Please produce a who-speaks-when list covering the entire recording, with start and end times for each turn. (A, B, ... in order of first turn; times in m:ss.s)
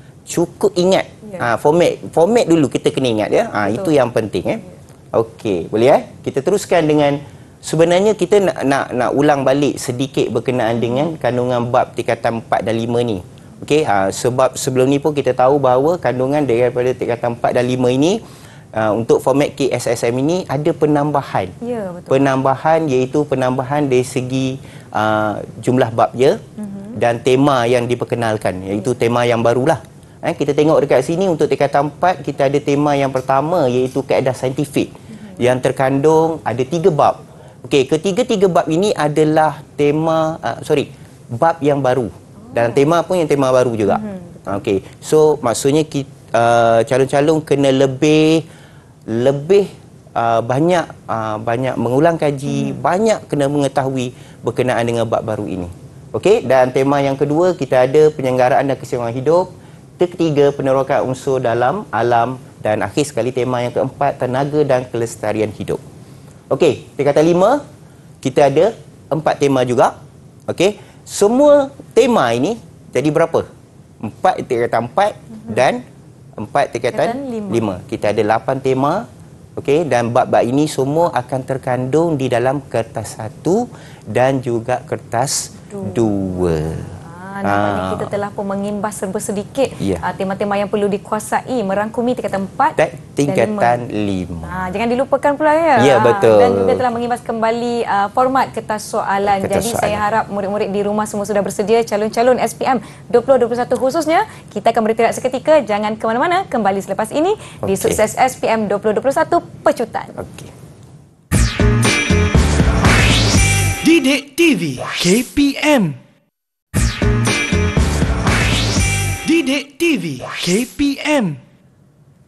0:00.3-0:18.2 A
0:01.2-0:01.5 B
0:03.7-0:03.9 B
0:18.7-0:21.5 A
0:21.6-0:22.2 B
0:22.1-0:26.4 A
0:26.6-0:27.0 B
0:26.9-0:48.5 A
0:42.4-0:42.8 B
0:43.9-0:44.6 B
0:49.1-1:05.8 A
0:52.5-0:52.8 B
1:06.5-1:07.6 A
1:08.2-1:10.0 A
1:10.5-1:13.5 A
1:14.0-1:15.8 A
1:16.4-1:28.1 A
1:16.9-1:17.7 B
1:25.7-1:33.8 B
1:29.8-1:30.0 A
1:32.8-1:34.6 A
1:34.4-1:50.2 B
1:35.8-1:36.8 A
1:39.3-1:40.0 A
1:47.6-1:48.0 A
1:50.2-1:50.5 A
1:53.8-1:56.0 C
1:59.2-2:01.4 C